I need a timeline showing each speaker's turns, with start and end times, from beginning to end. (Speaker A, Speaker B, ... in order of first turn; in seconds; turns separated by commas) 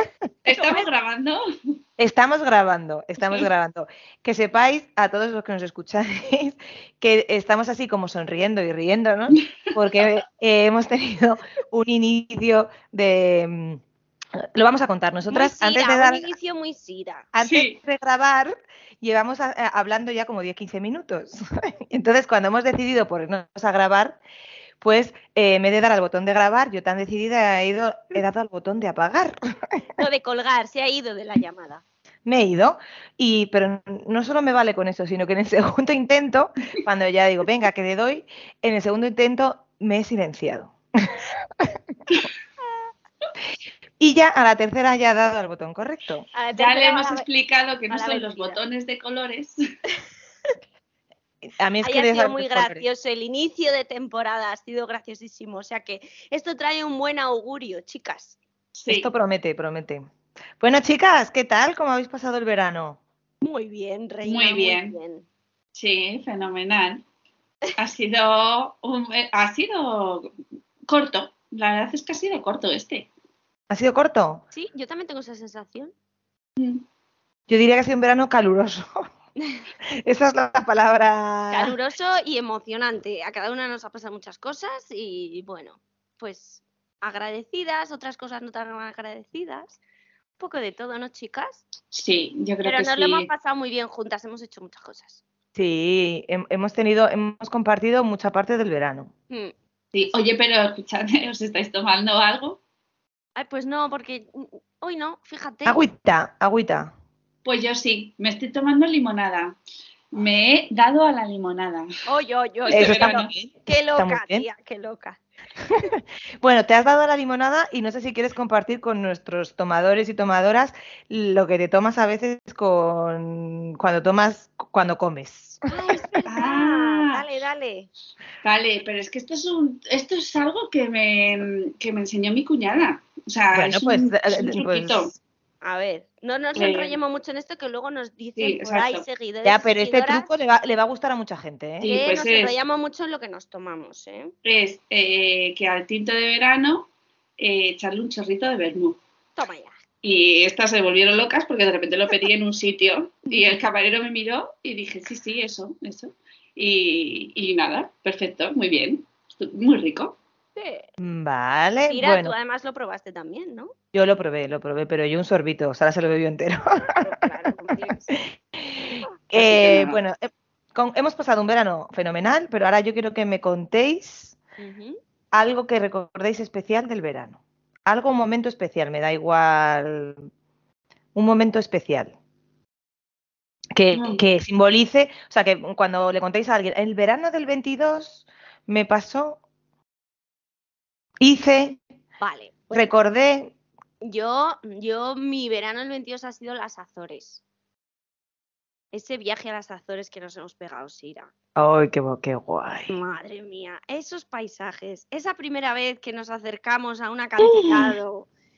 Speaker A: 0.5-1.4, Speaker B: 0.6-0.8, Speaker C: 2.0-13.8, Speaker C: 14.4-16.3, Speaker B: 15.3-17.3, Speaker C: 17.3-24.2, Speaker A: 17.4-17.8, Speaker C: 24.8-29.4, Speaker B: 30.0-31.8, Speaker C: 32.2-41.7, Speaker C: 44.0-46.3, Speaker B: 46.3-47.3, Speaker A: 46.5-49.5, Speaker B: 47.9-48.6, Speaker C: 51.5-52.9, Speaker B: 51.8-58.4, Speaker A: 58.7-59.1, Speaker C: 58.9-60.1, Speaker C: 60.6-63.0, Speaker B: 63.4-65.2, Speaker A: 64.2-65.0, Speaker A: 65.8-67.0, Speaker A: 67.8-70.3, Speaker A: 70.9-73.1, Speaker C: 73.7-74.4, Speaker B: 74.5-75.9, Speaker A: 76.6-76.8, Speaker C: 77.5-79.0, Speaker C: 79.9-81.7, Speaker B: 81.5-89.8, Speaker B: 90.4-91.6, Speaker A: 91.9-93.3, Speaker B: 92.6-95.2, Speaker C: 95.5-99.1, Speaker A: 99.9-102.6, Speaker B: 103.3-105.8, Speaker C: 105.7-106.9, Speaker A: 107.4-109.6, Speaker A: 110.1-111.9, Speaker B: 112.1-115.2, Speaker A: 112.6-113.3, Speaker C: 112.7-114.4, Speaker C: 115.7-126.1, Speaker B: 125.7-127.9, Speaker A: 126.3-127.2, Speaker A: 128.4-135.2, Speaker C: 133.5-135.1, Speaker B: 135.6-140.3, Speaker A: 136.5-137.0, Speaker A: 138.4-139.1, Speaker C: 139.4-141.9, Speaker A: 141.8-142.5, Speaker B: 141.8-144.3, Speaker A: 144.4-149.0, Speaker B: 149.4-149.8, Speaker A: 150.0-160.2, Speaker B: 160.6-160.9, Speaker C: 161.0-162.3, Speaker B: 161.8-163.7, Speaker C: 163.9-167.0, Speaker B: 166.8-168.2, Speaker C: 168.1-174.3, Speaker A: 169.3-170.0, Speaker B: 174.6-175.0, Speaker C: 175.3-180.3, Speaker C: 181.1-182.1, Speaker C: 183.8-189.4, Speaker A: 183.9-184.2, Speaker C: 191.2-191.8, Speaker B: 192.2-192.9, Speaker C: 192.7-193.5, Speaker B: 194.0-197.4, Speaker B: 198.9-201.3, Speaker C: 201.6-203.0, Speaker B: 202.9-208.3